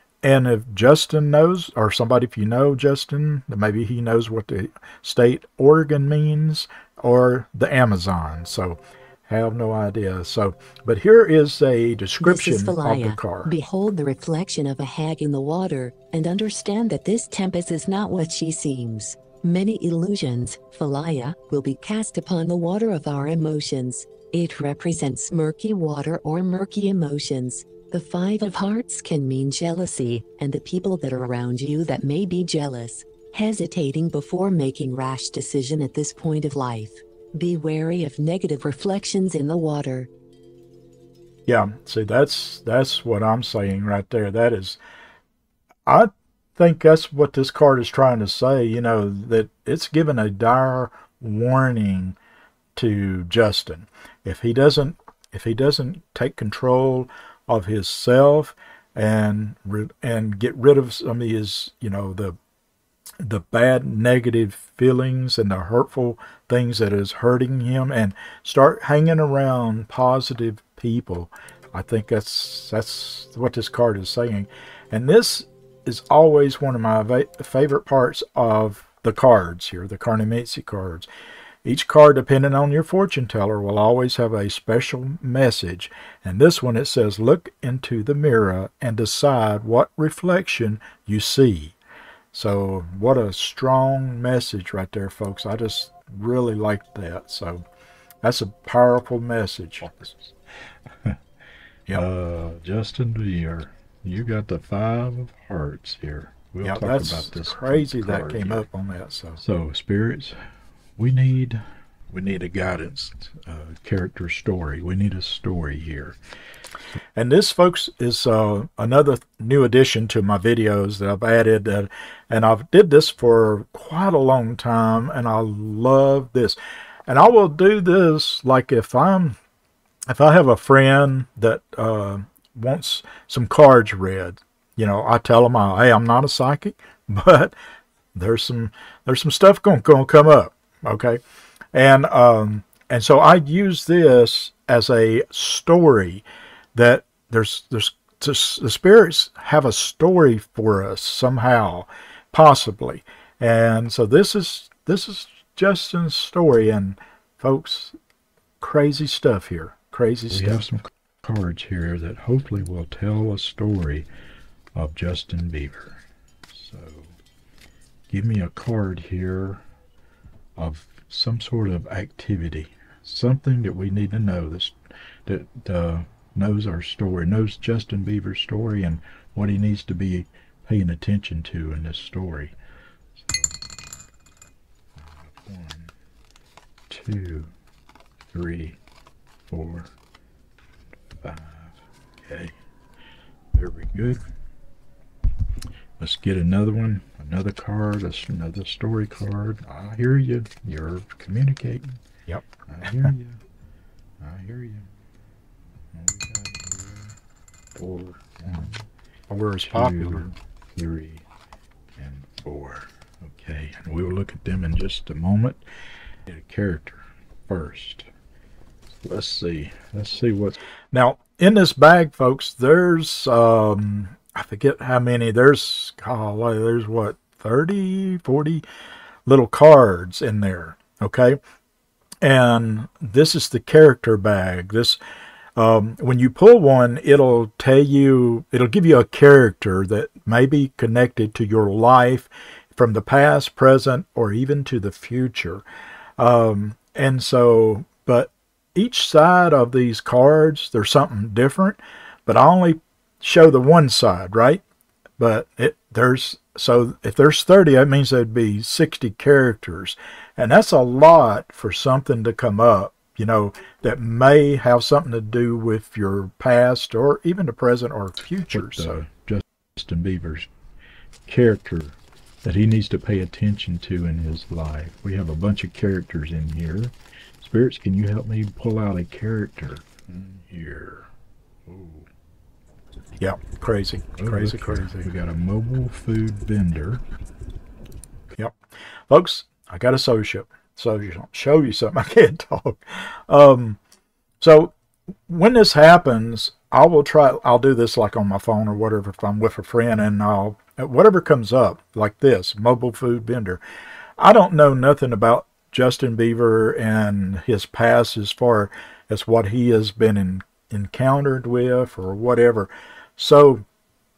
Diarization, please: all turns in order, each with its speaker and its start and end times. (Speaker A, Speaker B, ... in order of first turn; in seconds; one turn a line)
Speaker A: 0.2-13.5
Speaker B: 12.2-40.1
Speaker A: 41.5-44.8
Speaker A: 45.9-52.1
Speaker A: 52.7-62.4
Speaker A: 63.2-81.1
Speaker A: 81.6-91.7
Speaker A: 92.3-97.6
Speaker A: 98.2-100.0
Speaker C: 99.8-100.3
Speaker C: 100.9-101.2
Speaker C: 101.9-108.7
Speaker A: 106.6-109.4
Speaker C: 109.4-110.4
Speaker C: 111.0-116.2
Speaker A: 117.1-129.4
Speaker A: 130.1-137.5
Speaker A: 138.1-141.2
Speaker A: 141.7-146.2
Speaker A: 146.7-157.9
Speaker A: 158.6-160.7
Speaker C: 160.3-164.1
Speaker C: 164.7-167.1
Speaker C: 168.1-169.6
Speaker C: 170.6-182.5
Speaker C: 183.2-183.6
Speaker C: 184.9-185.9
Speaker C: 186.9-187.5
Speaker C: 188.3-188.8
Speaker C: 189.5-189.9
Speaker C: 191.2-192.5
Speaker C: 193.5-194.3
Speaker C: 196.0-202.0
Speaker A: 202.3-203.1
Speaker C: 202.7-203.4
Speaker C: 204.2-204.9
Speaker C: 205.9-207.2
Speaker C: 207.7-208.8
Speaker A: 209.3-210.3
Speaker C: 209.7-211.2
Speaker C: 211.9-215.6
Speaker C: 216.3-218.1
Speaker C: 219.0-220.6
Speaker A: 220.9-228.6
Speaker A: 229.3-231.4
Speaker A: 232.2-235.0
Speaker A: 235.6-245.6
Speaker A: 246.2-254.6
Speaker A: 255.2-269.0
Speaker C: 268.5-270.5
Speaker C: 271.3-281.1
Speaker C: 281.6-282.1
Speaker A: 283.2-285.1
Speaker C: 284.2-287.0
Speaker A: 289.1-293.8
Speaker A: 294.4-294.7
Speaker A: 295.3-303.6
Speaker A: 304.2-313.6